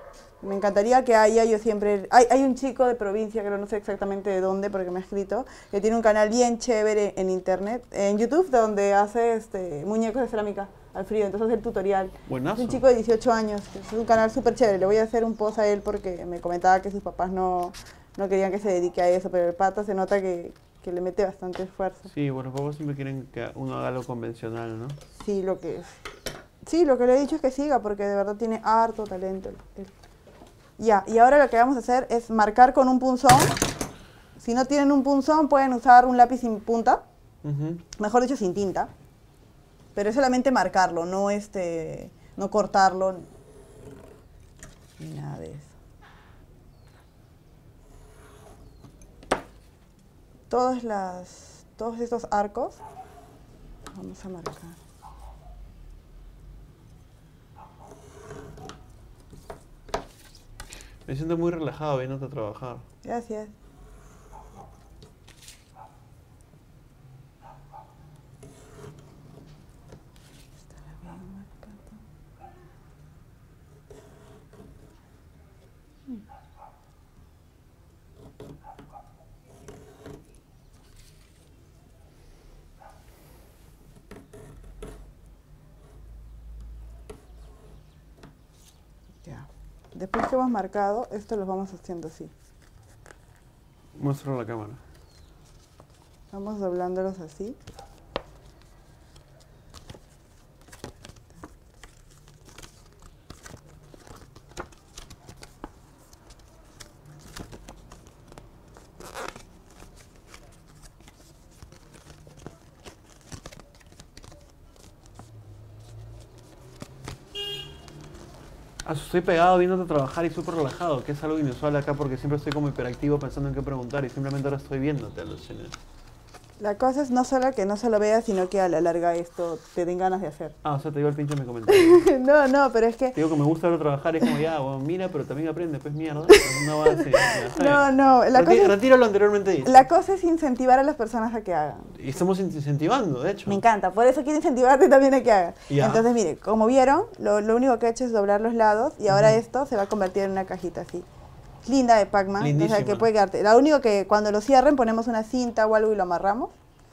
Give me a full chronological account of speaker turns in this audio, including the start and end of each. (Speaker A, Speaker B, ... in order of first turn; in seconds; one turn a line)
Speaker A: 0.4-22.1
Speaker B: 12.3-12.8
Speaker B: 22.1-25.0
Speaker A: 25.2-25.9
Speaker A: 26.6-29.9
Speaker A: 30.8-33.6
Speaker A: 34.4-37.0
Speaker B: 37.4-37.8
Speaker A: 38.0-38.9
Speaker A: 39.9-43.3
Speaker A: 45.0-45.7
Speaker A: 50.5-52.8
Speaker A: 53.9-54.8
Speaker B: 61.0-62.8
Speaker A: 63.0-63.5
Speaker A: 70.7-72.0
Speaker A: 89.2-92.3
Speaker B: 93.9-94.8
Speaker A: 96.3-97.6
Speaker B: 118.8-125.7
Speaker A: 126.6-130.6
Speaker B: 130.6-132.0
Speaker A: 131.7-133.2
Speaker B: 133.1-139.9
Speaker A: 136.3-138.8
Speaker A: 139.6-141.9
Speaker B: 142.0-143.6
Speaker A: 143.5-151.1
Speaker B: 145.7-146.1
Speaker A: 151.6-156.5
Speaker B: 152.4-153.1